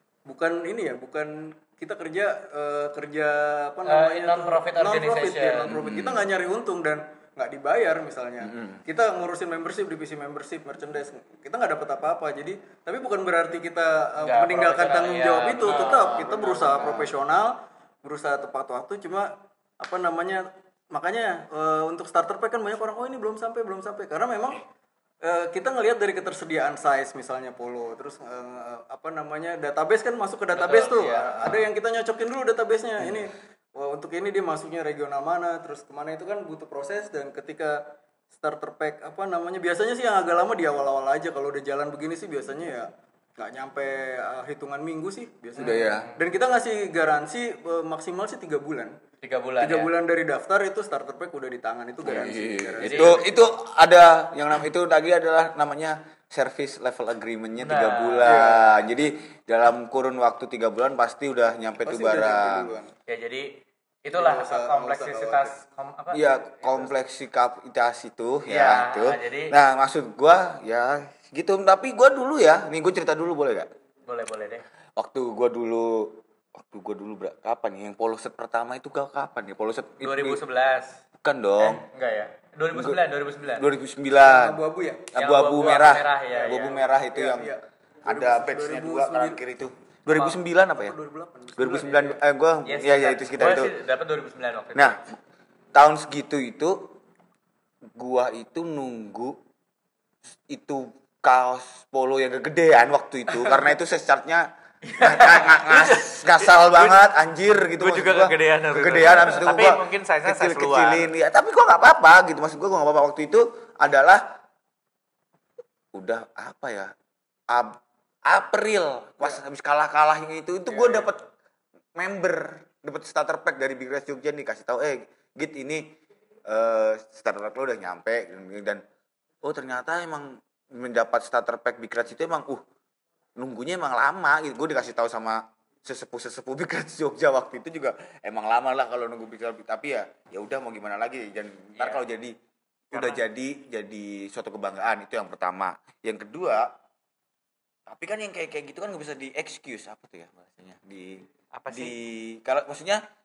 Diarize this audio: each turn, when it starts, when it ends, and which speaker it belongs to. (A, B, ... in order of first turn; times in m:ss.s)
0:00.2-0:24.6 A
0:03.9-0:05.7 B
0:05.7-0:06.3 C
0:08.4-0:08.8 C
0:14.2-0:16.9 B
0:15.7-0:17.1 C
0:25.2-0:49.0 A
0:30.5-0:31.7 B
0:45.6-0:46.1 C
0:45.6-0:46.2 B
0:49.2-0:49.9 B
0:49.6-0:53.5 A
0:52.0-1:02.7 C
0:52.8-0:53.2 B
0:57.6-0:58.4 B
0:58.2-0:58.8 A
1:01.8-1:02.9 A
1:03.1-1:03.5 B
1:04.0-1:06.3 B
1:04.1-1:05.6 A
1:06.1-1:13.7 C
1:08.5-1:09.6 B
1:14.0-1:14.6 B
1:15.0-1:20.4 C
1:20.0-1:21.0 B
1:21.2-1:21.8 C
1:21.6-1:23.7 B
1:22.7-1:24.6 C
1:24.2-1:25.1 A
1:25.1-1:31.0 C
1:25.1-1:26.8 B
1:25.8-1:29.4 A
1:30.2-1:32.2 A
1:31.6-1:33.7 C
1:32.6-1:35.0 B
1:34.7-1:35.0 C
1:35.7-1:36.9 C
1:37.9-1:39.4 C
1:40.5-1:54.4 C
1:44.8-1:47.1 B
1:47.6-1:51.1 B
1:55.9-1:56.9 C
1:57.5-2:01.2 C
2:00.7-2:01.1 A
2:02.0-2:08.8 C
2:09.4-2:12.6 C
2:13.4-2:22.3 C
2:21.8-2:22.0 B
2:22.9-2:23.2 B
2:22.9-2:26.7 C
2:27.9-2:33.0 C
2:31.5-2:31.9 B